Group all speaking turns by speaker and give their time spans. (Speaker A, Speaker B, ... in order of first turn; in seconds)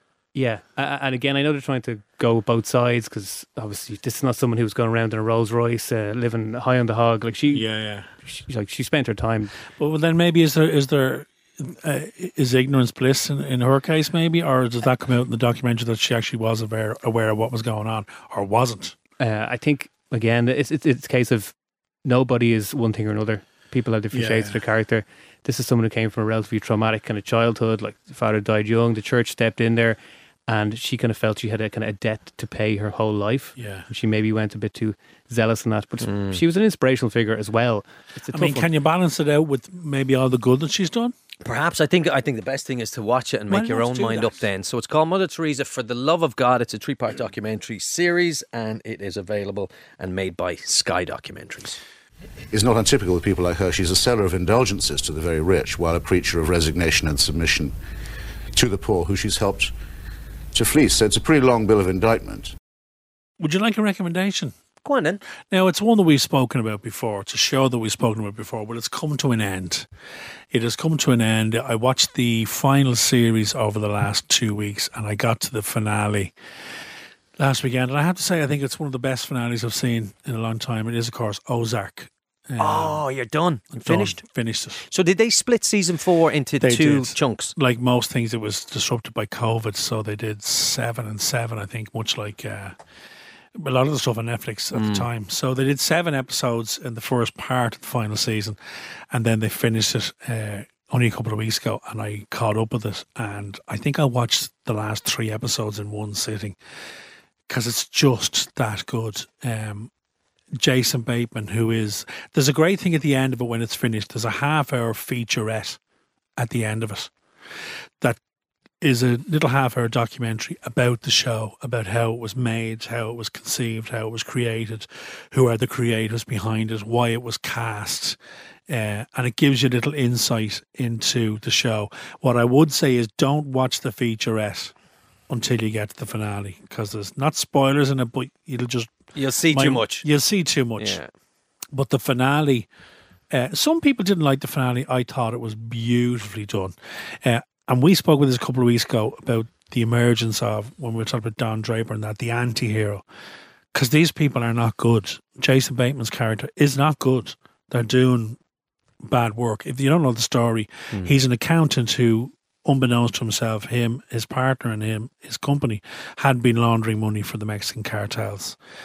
Speaker A: 0.3-7.7, 8.2-9.6, 19.2-38.7
Speaker B: 7.5-8.1, 9.8-18.9, 24.1-24.6, 33.6-33.9, 38.3-41.1, 43.5-44.4, 63.4-64.5, 65.5-69.9, 70.5-76.3, 77.4-83.0, 83.7-84.8, 86.6-92.8, 93.5-98.6, 99.1-106.6, 107.5-109.9, 110.6-115.8, 116.4-117.1, 118.8-128.2, 128.7-134.7, 135.3-141.0, 141.7-142.7, 143.3-153.0, 153.7-158.4, 159.0-168.6
Speaker C: 36.0-36.4, 41.4-51.8, 64.8-65.2, 82.6-84.2, 84.8-87.5, 94.7-95.1, 139.2-140.1, 140.8-141.1
Speaker D: 52.5-57.7, 58.5-59.7, 60.5-62.5